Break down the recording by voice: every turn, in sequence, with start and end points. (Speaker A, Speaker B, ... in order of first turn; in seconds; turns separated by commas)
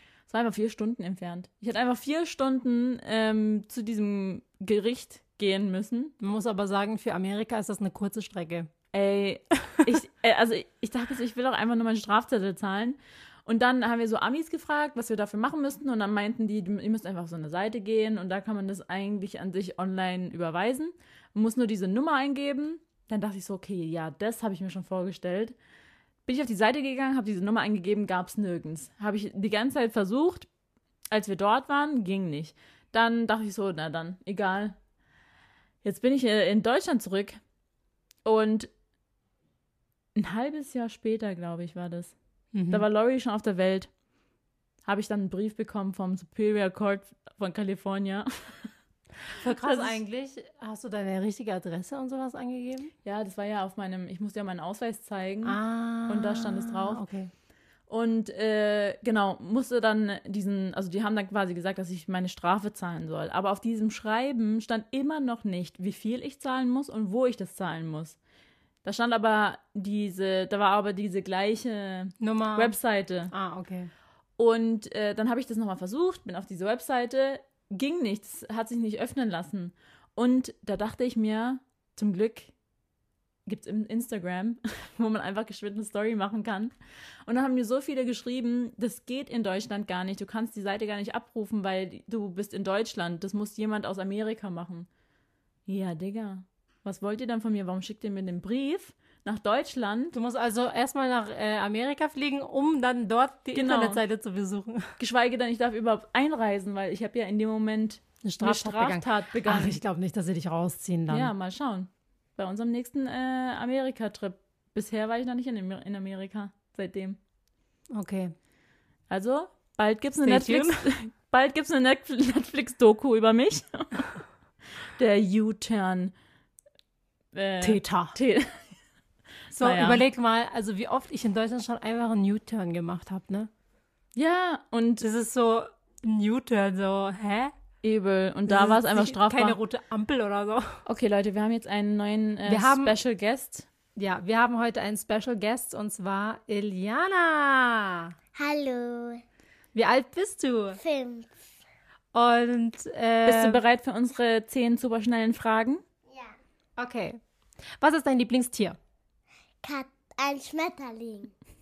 Speaker A: 0.3-6.1, Speaker B: 6.2-8.7, Speaker A: 8.9-25.6, Speaker A: 26.3-30.5, Speaker A: 31.1-34.8, Speaker A: 35.8-37.4, Speaker A: 38.2-38.7, Speaker A: 40.2-42.1, Speaker B: 42.5-42.9, Speaker A: 42.7-43.9, Speaker A: 44.9-48.7, Speaker B: 49.3-52.9, Speaker A: 49.6-50.0, Speaker A: 53.0-57.0, Speaker B: 55.4-57.3, Speaker A: 57.9-68.2, Speaker A: 68.8-73.3, Speaker B: 72.2-72.8, Speaker B: 73.3-73.9, Speaker A: 74.4-82.5, Speaker A: 83.5-86.7, Speaker A: 87.3-94.9, Speaker A: 95.7-100.1, Speaker B: 100.1-105.0, Speaker A: 103.5-104.0, Speaker A: 105.0-109.8, Speaker B: 108.2-111.3, Speaker A: 111.1-117.2, Speaker B: 117.9-118.3, Speaker A: 119.1-124.2, Speaker B: 120.2-120.9, Speaker A: 124.8-126.1, Speaker A: 127.3-128.7, Speaker B: 127.6-128.1, Speaker A: 129.5-130.0, Speaker B: 129.5-133.5, Speaker A: 134.1-135.1, Speaker B: 135.0-137.5, Speaker A: 137.8-139.6, Speaker B: 138.5-140.8, Speaker A: 140.9-143.7, Speaker B: 142.4-143.0, Speaker B: 143.9-148.1, Speaker C: 148.3-149.2, Speaker B: 149.8-150.8, Speaker C: 150.8-151.5, Speaker B: 152.1-153.6, Speaker A: 153.3-155.8, Speaker C: 156.1-156.4, Speaker B: 156.8-157.2, Speaker B: 157.8-158.8, Speaker C: 159.6-161.3